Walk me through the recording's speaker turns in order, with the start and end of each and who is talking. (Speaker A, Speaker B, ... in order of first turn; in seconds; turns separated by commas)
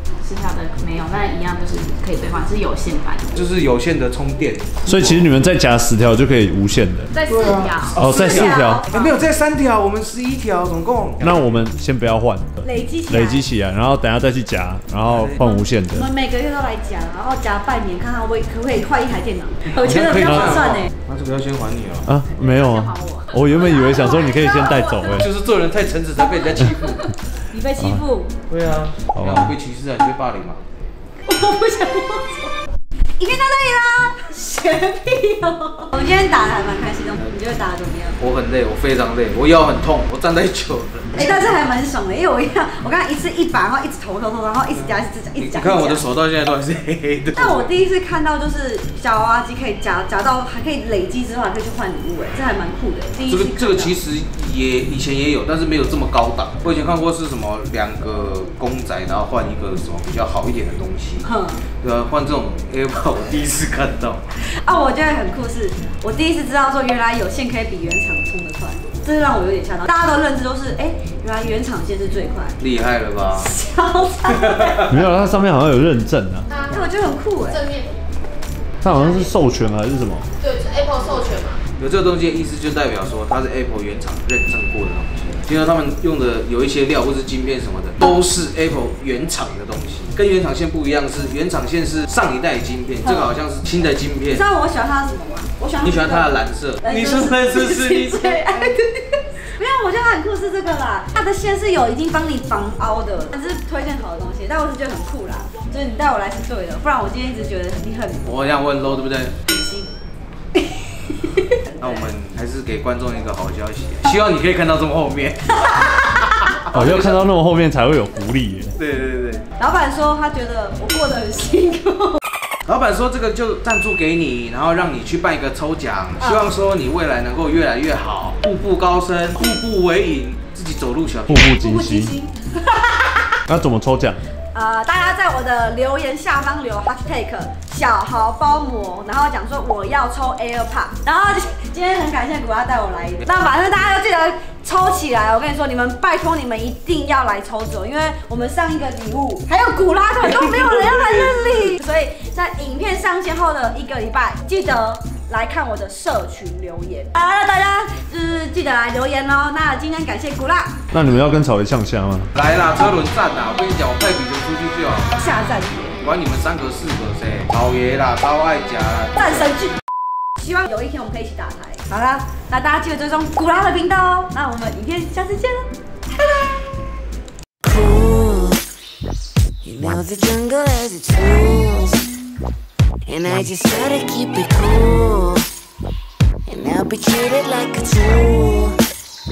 Speaker A: 0.2-3.4, Speaker B: 3.3-5.3, Speaker C: 4.8-7.1, Speaker A: 7.1-8.0, Speaker B: 7.2-11.4, Speaker C: 7.9-8.8, Speaker D: 8.0-9.2, Speaker C: 11.2-16.1, Speaker D: 12.6-13.4, Speaker B: 15.1-15.4, Speaker D: 15.4-20.9, Speaker B: 19.8-22.1, Speaker C: 20.2-20.6, Speaker C: 22.0-25.3, Speaker A: 22.3-24.2, Speaker D: 23.6-25.1, Speaker B: 25.1-27.1, Speaker D: 27.5-28.3, Speaker B: 28.5-30.6, Speaker C: 29.1-29.5, Speaker D: 31.2-32.5, Speaker D: 33.2-38.2, Speaker B: 38.2-41.3, Speaker D: 41.1-46.0, Speaker B: 45.4-47.7, Speaker D: 47.4-54.0, Speaker B: 53.3-64.2, Speaker D: 61.2-61.6, Speaker D: 64.6-72.6, Speaker B: 72.6-73.5, Speaker D: 73.3-74.9, Speaker B: 74.3-74.8, Speaker C: 74.9-76.5, Speaker A: 76.5-76.8, Speaker D: 76.7-77.6, Speaker A: 77.5-77.9, Speaker C: 78.8-80.3, Speaker A: 78.9-79.3, Speaker A: 80.4-81.6, Speaker B: 81.8-94.4, Speaker D: 93.0-93.3, Speaker D: 94.3-96.3, Speaker B: 95.8-98.4, Speaker D: 96.8-108.3, Speaker B: 108.2-109.5, Speaker D: 109.5-109.9, Speaker D: 111.2-112.1, Speaker B: 111.8-117.2, Speaker D: 115.7-116.3, Speaker C: 116.7-118.8, Speaker B: 118.8-119.5, Speaker D: 119.6-122.2, Speaker B: 122.7-131.5, Speaker D: 126.2-126.5, Speaker C: 131.3-132.1, Speaker D: 131.6-133.2, Speaker C: 133.5-134.2, Speaker D: 134.5-160.8, Speaker B: 150.2-151.5, Speaker C: 160.9-162.3, Speaker B: 162.3-165.2, Speaker D: 165.2-166.0, Speaker B: 166.0-169.5, Speaker D: 169.2-169.8, Speaker D: 170.4-176.6, Speaker E: 177.6-178.6, Speaker E: 179.6-182.0, Speaker E: 183.1-185.4, Speaker E: 186.5-188.8